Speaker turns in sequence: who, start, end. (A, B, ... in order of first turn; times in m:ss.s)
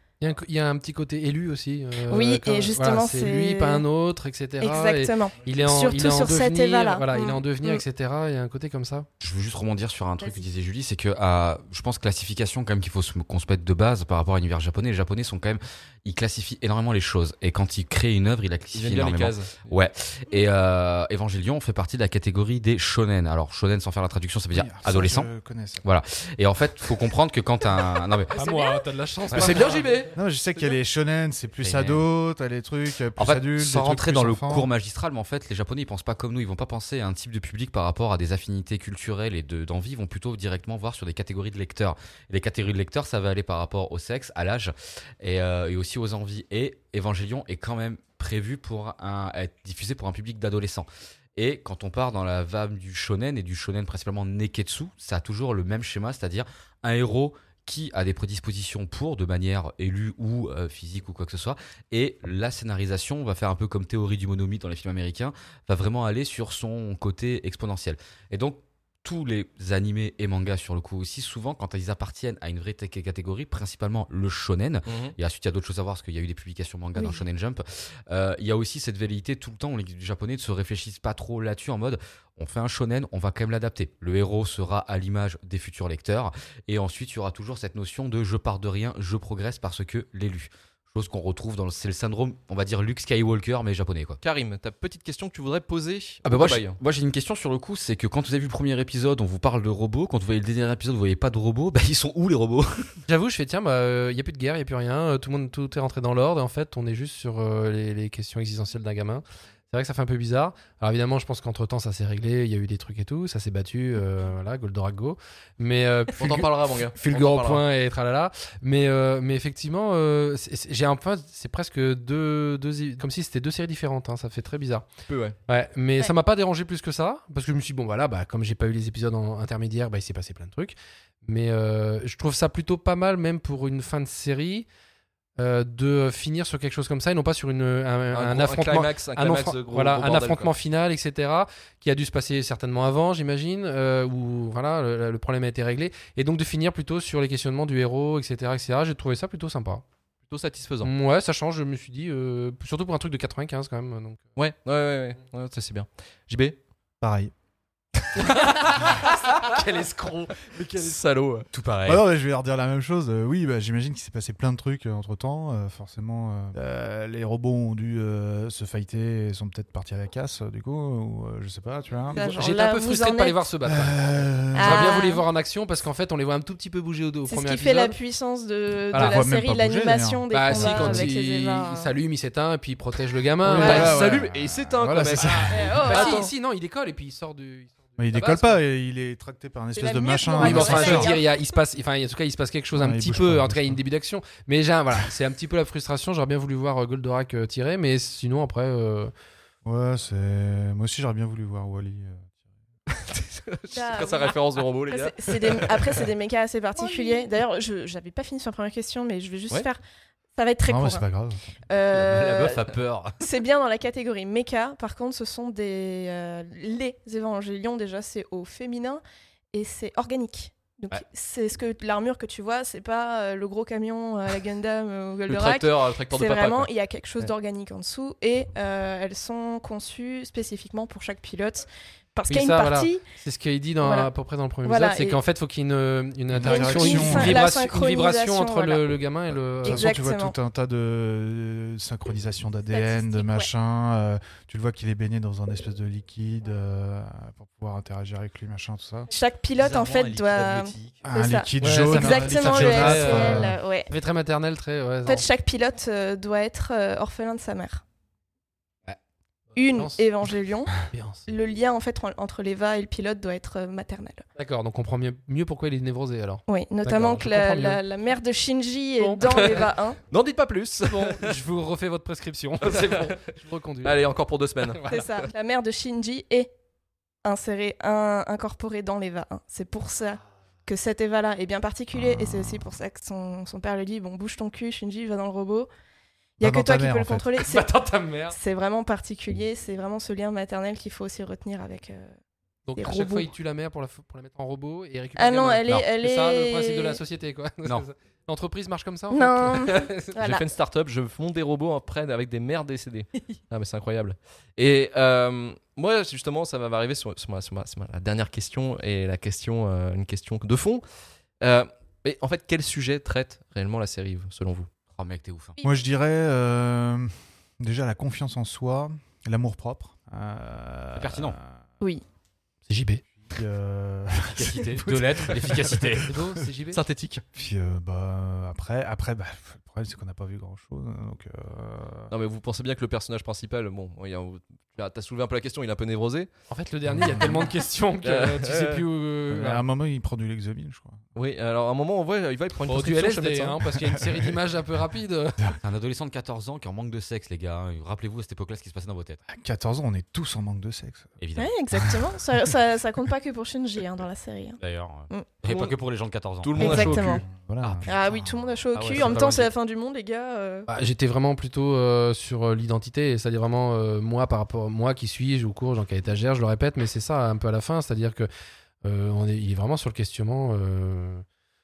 0:00.2-0:09.1 A
0:02.1-0:03.8 B
0:04.6-0:07.8 B
0:09.2-0:25.3 C
0:10.2-0:10.5 B
0:18.7-0:19.8 D
0:24.5-0:25.9 E
0:25.8-0:28.4 C
0:28.3-0:30.0 A
0:28.4-0:28.8 B
0:29.3-0:30.1 D
0:30.1-0:34.7 E
0:31.6-0:32.0 C
0:33.2-1:34.2 C
1:14.9-1:15.2 D
1:17.0-1:17.2 B
1:34.2-1:36.8 D
1:36.2-1:42.9 C
1:43.1-2:04.9 A
1:56.2-1:57.6 D
2:05.1-2:05.4 D
2:05.5-2:14.7 A
2:15.4-2:29.8 A
2:18.1-2:20.5 D
2:30.3-2:30.9 D
2:30.8-2:34.2 A
2:34.4-2:36.6 D
2:37.0-2:37.3 E
2:38.2-2:41.0 A
2:40.5-2:41.5 D
2:41.5-2:42.0 C
2:41.9-2:52.3 E
2:52.1-2:53.4 B
2:52.1-2:58.0 A
2:53.6-2:55.0 E
2:54.6-2:55.2 B
2:57.3-3:01.9 B
2:58.9-2:59.2 A
2:58.9-3:01.1 E
3:00.3-3:04.1 A
3:03.4-3:06.0 E
3:03.6-3:03.9 B
3:03.6-3:06.2 D
3:05.2-3:08.6 A
3:05.5-3:06.3 B
3:08.0-3:11.2 E
3:09.8-3:11.4 B
3:10.4-3:19.1 A
3:12.8-3:13.8 E
3:19.6-3:22.3 E
3:22.9-3:26.1 D
3:23.7-3:29.8 B
3:30.4-3:31.0 B
3:30.7-3:31.6 E
3:31.7-3:39.0 B
3:31.9-3:33.2 C
3:39.5-3:53.0 B
3:45.3-3:46.7 D
3:52.3-3:59.9 A
3:53.8-3:54.1 B
3:54.6-3:55.2 B
3:56.3-3:57.5 E
3:56.4-3:59.0 B
3:59.6-4:00.4 B
3:59.6-4:09.1 E
4:02.7-4:03.5 B
4:09.1-4:13.9 B
4:09.6-4:11.1 C
4:11.0-4:13.6 E
4:11.6-4:15.3 A
4:15.1-4:17.8 B
4:19.5-4:20.0 A
4:19.6-4:24.2 B
4:20.9-4:21.3 A
4:24.4-4:27.8 A
4:26.5-4:30.0 B
4:29.0-4:29.7 A
4:30.1-4:31.4 D
4:30.9-4:34.1 A
4:32.6-4:33.2 D
4:33.8-4:34.8 D
4:34.7-4:35.1 A
4:34.9-4:36.5 B
4:37.2-4:45.7 B
4:46.4-4:47.7 B
4:46.4-4:47.3 E
4:47.4-4:48.4 A
4:48.3-4:52.1 B
4:52.7-5:00.1 A
4:52.8-4:53.3 B
4:55.2-4:57.0 B
4:59.1-5:00.5 B
5:00.2-5:10.8 D
5:11.4-5:14.7 D
5:14.9-5:15.6 C
5:15.6-5:21.5 E
5:21.0-5:21.4 C
5:22.7-5:23.0 A
5:23.3-5:26.1 E
5:24.2-5:26.1 C
5:26.0-5:26.8 A
5:26.7-5:27.2 D
5:27.4-5:32.1 E
5:32.1-5:36.3 D
5:36.5-5:39.6 A
5:36.9-5:37.3 E
5:38.0-5:38.8 D
5:39.3-5:41.0 E
5:41.2-5:43.6 D
5:42.7-5:45.4 A
5:43.9-5:44.4 E
5:45.6-5:49.2 C
5:49.3-5:51.2 E
5:51.2-5:51.5 C
5:51.4-5:55.7 B
5:51.8-5:52.3 E
5:54.6-5:56.8 C
5:56.4-5:57.2 D
5:56.6-5:57.2 B
5:56.6-5:58.5 E
5:57.6-5:58.1 C
5:57.8-6:00.7 B
5:58.7-5:59.5 C
6:00.7-6:08.3 A
6:08.8-6:11.2 A